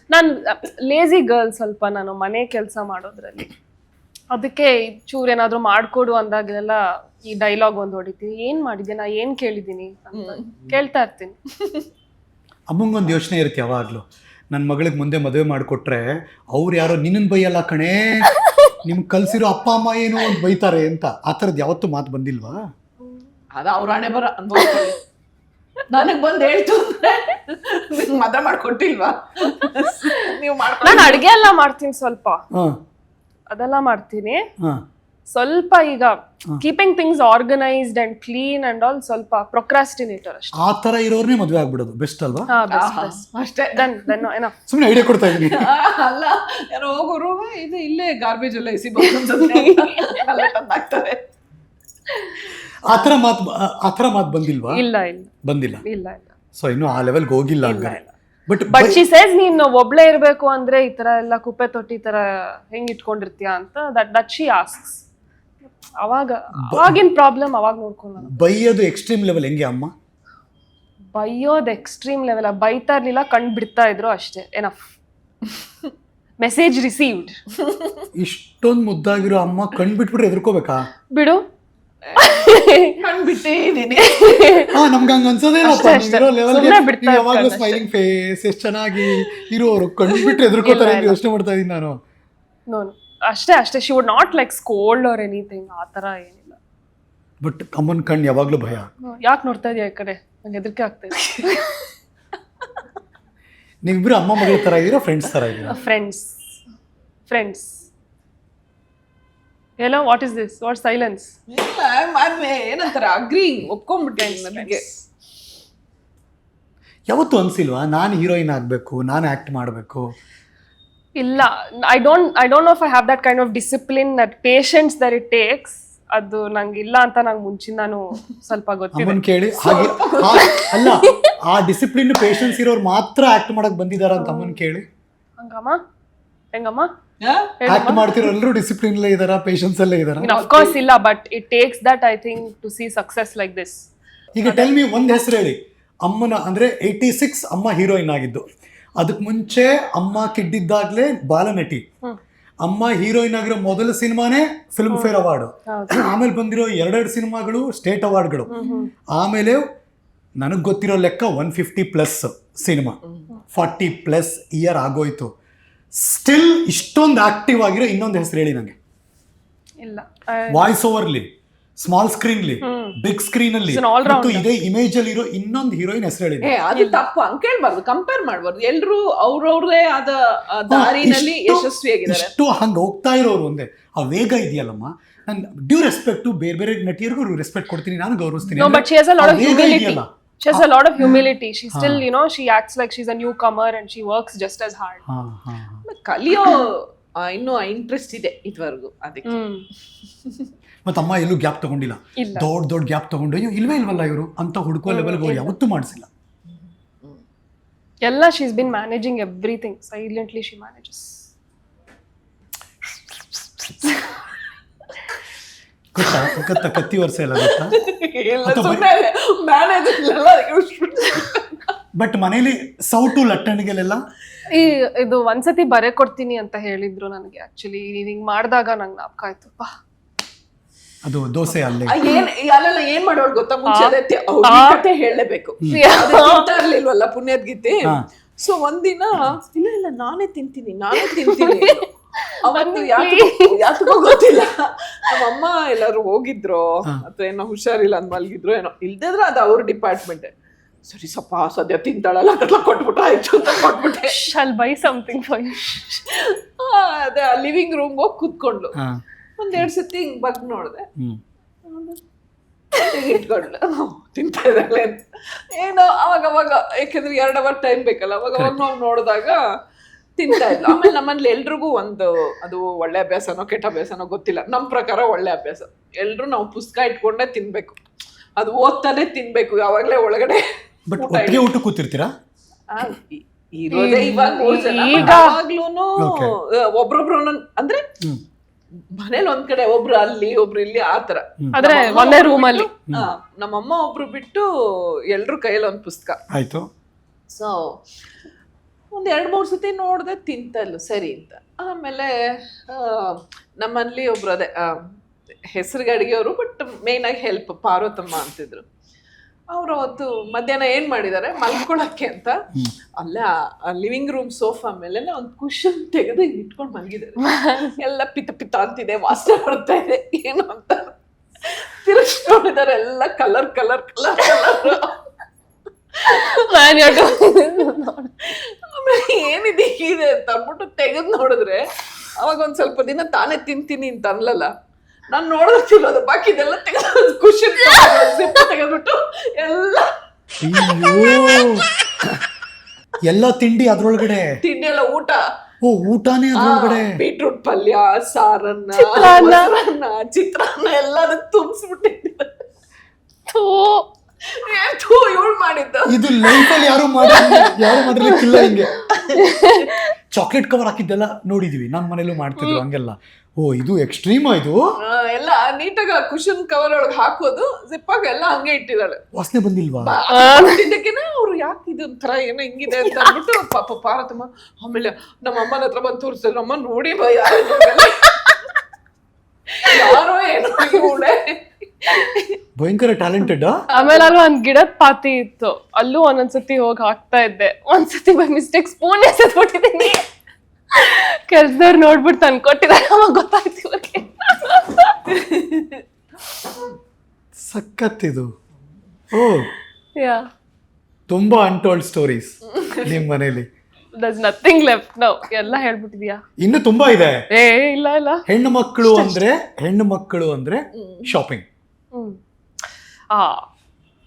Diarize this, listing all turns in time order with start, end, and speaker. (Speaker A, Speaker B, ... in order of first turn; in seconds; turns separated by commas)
Speaker A: 0.1-3.5, Speaker A: 4.3-11.4, Speaker B: 10.1-10.5, Speaker C: 12.7-18.3, Speaker C: 18.8-22.6, Speaker B: 23.6-25.0, Speaker B: 25.9-31.2, Speaker A: 30.8-32.4, Speaker A: 33.5-34.5, Speaker A: 35.3-40.6, Speaker C: 40.6-42.5, Speaker A: 42.5-44.5, Speaker B: 42.7-44.1, Speaker C: 44.7-45.7, Speaker B: 45.3-51.2, Speaker A: 49.1-50.2, Speaker C: 52.9-54.8, Speaker A: 54.7-55.3, Speaker C: 55.4-55.8, Speaker A: 55.9-56.3, Speaker C: 56.6-59.0, Speaker A: 57.6-58.1, Speaker A: 58.7-65.0, Speaker A: 66.0-68.3, Speaker C: 66.6-67.0, Speaker C: 68.3-69.9, Speaker A: 71.1-74.8, Speaker A: 76.4-77.3, Speaker B: 77.7-78.0, Speaker C: 78.2-80.8, Speaker A: 81.1-81.4, Speaker B: 82.1-84.8, Speaker A: 82.2-83.0, Speaker A: 84.1-84.7, Speaker C: 84.7-92.0, Speaker A: 85.6-87.8, Speaker A: 90.2-91.2, Speaker A: 92.7-96.6, Speaker C: 97.4-98.9, Speaker A: 99.1-101.8, Speaker C: 103.8-105.8, Speaker A: 105.7-106.4, Speaker A: 107.3-107.9, Speaker A: 109.8-111.3, Speaker B: 111.5-114.8, Speaker A: 114.2-115.1, Speaker C: 117.1-120.0, Speaker A: 121.2-129.2, Speaker C: 128.9-134.8, Speaker B: 129.6-130.8, Speaker A: 130.5-131.3, Speaker A: 134.2-134.6, Speaker A: 135.4-135.8, Speaker A: 136.5-136.9, Speaker B: 137.2-137.5, Speaker A: 137.6-138.3, Speaker C: 137.7-140.3, Speaker A: 140.2-143.8, Speaker B: 140.3-140.8, Speaker C: 144.4-148.4, Speaker A: 144.4-144.7, Speaker C: 149.0-151.8, Speaker C: 152.6-158.5, Speaker A: 155.7-156.1, Speaker A: 158.5-158.9, Speaker C: 159.2-159.6, Speaker C: 160.4-163.0, Speaker C: 163.5-165.3, Speaker C: 166.0-168.8, Speaker A: 169.8-170.7, Speaker C: 170.5-176.5, Speaker A: 172.6-173.0, Speaker A: 173.7-174.5, Speaker B: 176.4-182.3, Speaker A: 176.7-177.0, Speaker C: 180.7-190.6, Speaker A: 188.6-195.0, Speaker C: 191.7-192.1, Speaker C: 195.1-195.8, Speaker B: 195.9-199.5, Speaker A: 199.2-199.7, Speaker B: 200.2-200.5, Speaker C: 200.8-206.1, Speaker A: 202.2-202.5, Speaker A: 204.9-205.5, Speaker A: 208.0-211.3, Speaker C: 215.9-217.8, Speaker B: 216.2-216.7, Speaker B: 217.4-221.6, Speaker C: 218.4-218.9, Speaker C: 222.0-224.0, Speaker A: 224.5-229.7, Speaker C: 231.0-232.0, Speaker B: 231.8-241.9, Speaker A: 233.7-234.8, Speaker A: 235.7-236.5, Speaker A: 241.0-244.0, Speaker B: 242.4-250.3, Speaker B: 250.9-254.3, Speaker A: 253.9-256.0, Speaker B: 256.1-258.8, Speaker C: 258.8-259.0, Speaker B: 259.4-260.9, Speaker B: 261.7-262.0, Speaker B: 262.8-269.4, Speaker B: 270.2-277.8, Speaker B: 278.4-280.4, Speaker C: 280.9-282.1, Speaker B: 281.0-281.5, Speaker B: 282.7-287.9, Speaker A: 283.7-285.4, Speaker C: 286.0-286.3, Speaker B: 288.9-296.2, Speaker A: 291.5-292.7, Speaker C: 296.3-296.7, Speaker B: 297.3-297.8, Speaker B: 298.9-304.9, Speaker B: 305.5-308.6, Speaker B: 309.5-312.4, Speaker B: 313.0-325.0, Speaker A: 317.2-317.7, Speaker B: 326.1-327.1, Speaker A: 326.1-328.1, Speaker B: 328.3-331.6, Speaker B: 332.2-334.5, Speaker B: 335.1-339.9, Speaker C: 340.4-341.7, Speaker B: 340.6-341.9, Speaker C: 343.0-344.4, Speaker B: 344.4-345.2, Speaker C: 345.6-347.0, Speaker B: 346.4-352.3, Speaker A: 348.7-349.5, Speaker A: 353.3-353.9, Speaker B: 354.4-356.3, Speaker C: 355.9-358.8, Speaker A: 356.3-358.5, Speaker B: 358.9-359.6, Speaker A: 359.2-359.9, Speaker C: 360.1-364.6, Speaker A: 362.4-362.6, Speaker B: 364.9-369.0, Speaker C: 369.1-370.0, Speaker B: 369.8-378.5, Speaker A: 370.1-370.6, Speaker B: 379.6-382.3, Speaker C: 382.6-383.6, Speaker A: 383.7-390.1, Speaker B: 383.7-384.1, Speaker A: 390.7-394.9, Speaker B: 395.1-395.8, Speaker C: 397.4-398.3, Speaker C: 399.1-399.5, Speaker A: 400.0-400.3, Speaker C: 401.1-403.5, Speaker B: 402.6-402.9, Speaker A: 403.9-406.2, Speaker C: 406.4-407.2, Speaker A: 407.3-408.2, Speaker C: 408.3-411.4, Speaker A: 408.8-409.2, Speaker B: 410.7-411.2, Speaker A: 411.9-412.2, Speaker A: 413.1-413.5